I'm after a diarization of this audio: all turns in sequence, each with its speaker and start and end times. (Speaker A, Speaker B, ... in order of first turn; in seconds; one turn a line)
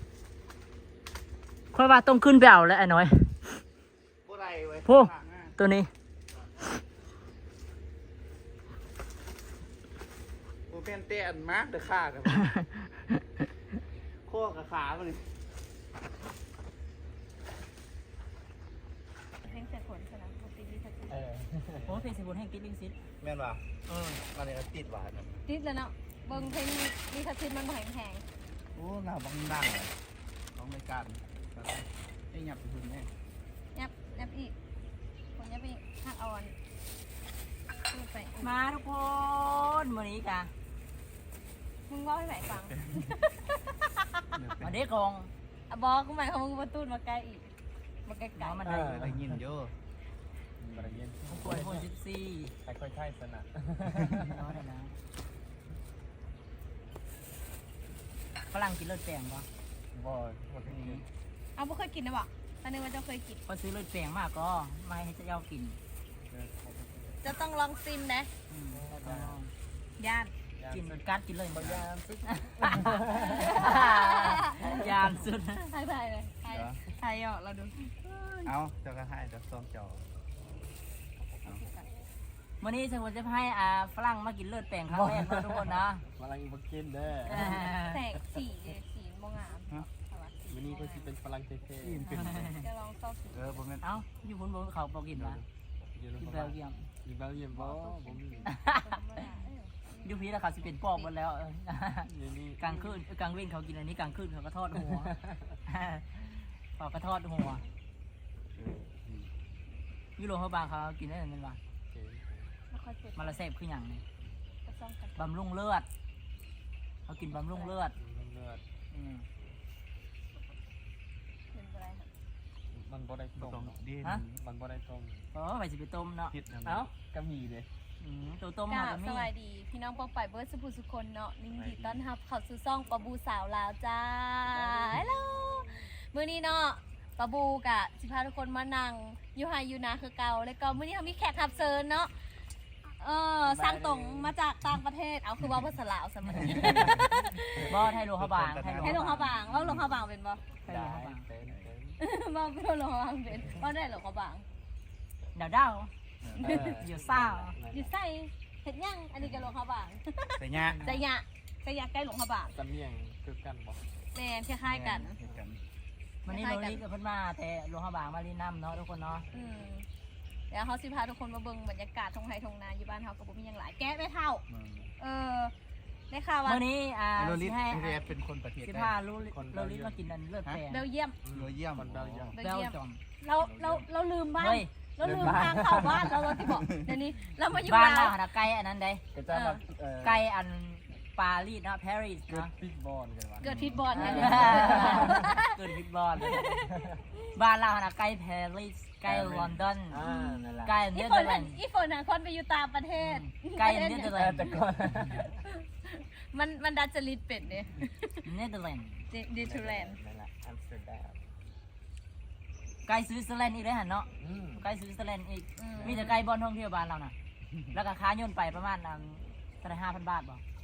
Speaker A: 1.7-3.6
Speaker B: 4.2-5.5
Speaker A: 4.9-5.9
Speaker B: 10.7-12.5
Speaker B: 14.3-15.3
Speaker C: 19.4-21.2
Speaker D: 21.1-21.9
Speaker A: 21.9-23.0
Speaker B: 23.2-23.7
Speaker A: 23.9-24.2
Speaker B: 24.2-25.4
Speaker C: 25.5-28.2
Speaker B: 28.8-29.9
Speaker B: 30.6-33.1
Speaker C: 33.8-34.5
Speaker C: 35.4-36.5
Speaker C: 37.9-38.6
Speaker A: 38.4-40.5
Speaker C: 41.9-44.3
Speaker B: 44.4-44.8
Speaker A: 44.6-45.3
Speaker C: 45.7-47.5
Speaker C: 48.1-49.0
Speaker A: 48.4-49.2
Speaker D: 48.7-49.2
Speaker B: 48.9-49.7
Speaker B: 50.6-51.0
Speaker D: 50.7-51.9
Speaker A: 51.3-52.5
Speaker D: 52.6-54.4
Speaker A: 54.1-54.9
Speaker A: 58.5-59.5
Speaker D: 59.9-61.0
Speaker B: 60.7-61.0
Speaker A: 60.8-61.0
Speaker C: 61.6-63.4
Speaker A: 63.5-65.8
Speaker D: 66.3-67.2
Speaker C: 67.2-68.3
Speaker A: 68.5-69.5
Speaker D: 68.7-69.4
Speaker C: 70.0-70.3
Speaker D: 70.6-73.5
Speaker A: 70.7-75.7
Speaker C: 73.2-78.5
Speaker B: 76.5-76.8
Speaker B: 78.4-80.1
Speaker C: 81.4-81.8
Speaker A: 82.6-86.0
Speaker D: 84.9-87.8
Speaker C: 87.2-91.1
Speaker A: 87.3-88.0
Speaker D: 90.5-92.5
Speaker A: 91.8-92.7
Speaker C: 92.4-93.7
Speaker B: 93.3-93.8
Speaker A: 93.8-95.4
Speaker D: 95.2-98.5
Speaker A: 96.2-96.8
Speaker C: 97.5-101.1
Speaker A: 98.5-99.0
Speaker A: 100.0-105.2
Speaker D: 102.1-103.0
Speaker D: 104.9-105.4
Speaker A: 105.7-106.2
Speaker A: 106.8-107.6
Speaker D: 108.6-109.3
Speaker A: 110.2-111.6
Speaker D: 111.9-112.5
Speaker C: 112.7-113.4
Speaker A: 113.2-114.0
Speaker C: 114.7-115.3
Speaker A: 115.2-115.9
Speaker A: 117.1-117.9
Speaker C: 117.3-117.8
Speaker D: 118.0-118.6
Speaker A: 118.9-119.2
Speaker C: 121.5-122.1
Speaker D: 122.7-123.8
Speaker B: 123.4-124.4
Speaker D: 124.3-125.3
Speaker A: 125.3-126.3
Speaker B: 126.3-126.8
Speaker D: 126.6-127.7
Speaker A: 128.0-129.3
Speaker C: 128.7-142.1
Speaker D: 131.5-132.0
Speaker D: 134.5-135.7
Speaker C: 143.0-147.8
Speaker D: 143.4-144.3
Speaker D: 146.4-147.0
Speaker B: 146.6-147.1
Speaker A: 147.6-149.4
Speaker B: 148.1-149.8
Speaker C: 148.8-150.4
Speaker A: 150.7-151.2
Speaker D: 150.7-152.0
Speaker B: 151.4-151.7
Speaker C: 152.0-154.4
Speaker A: 155.3-155.9
Speaker B: 156.2-156.7
Speaker C: 156.3-156.8
Speaker D: 156.4-157.9
Speaker A: 156.4-157.6
Speaker C: 157.7-162.6
Speaker B: 160.4-160.8
Speaker A: 160.7-161.1
Speaker D: 162.5-163.8
Speaker C: 164.2-165.2
Speaker B: 164.7-165.6
Speaker C: 166.3-166.8
Speaker A: 166.3-169.2
Speaker C: 169.3-169.8
Speaker D: 169.3-169.6
Speaker C: 170.5-174.4
Speaker B: 174.5-174.9
Speaker C: 175.0-175.5
Speaker C: 176.1-176.6
Speaker A: 176.4-178.0
Speaker B: 177.2-178.9
Speaker A: 178.6-180.8
Speaker D: 179.3-180.0
Speaker C: 180.7-181.2
Speaker D: 181.2-182.3
Speaker B: 181.3-182.3
Speaker C: 182.3-188.2
Speaker A: 182.4-183.0
Speaker B: 183.4-183.9
Speaker A: 184.4-184.7
Speaker D: 185.0-186.4
Speaker B: 186.5-186.9
Speaker A: 187.6-189.0
Speaker D: 189.1-190.3
Speaker C: 189.3-189.6
Speaker A: 190.0-192.5
Speaker D: 192.3-195.3
Speaker C: 193.4-195.6
Speaker B: 193.4-194.5
Speaker A: 193.9-196.5
Speaker C: 196.2-196.8
Speaker D: 196.3-197.0
Speaker A: 197.3-200.0
Speaker D: 199.1-200.8
Speaker C: 200.0-204.2
Speaker A: 200.7-201.6
Speaker A: 203.0-204.6
Speaker D: 204.1-205.4
Speaker C: 205.5-208.3
Speaker A: 208.2-209.1
Speaker C: 209.1-210.0
Speaker D: 209.4-211.2
Speaker A: 212.8-217.1
Speaker D: 214.2-214.7
Speaker C: 215.6-216.1
Speaker D: 215.7-216.2
Speaker A: 217.7-220.4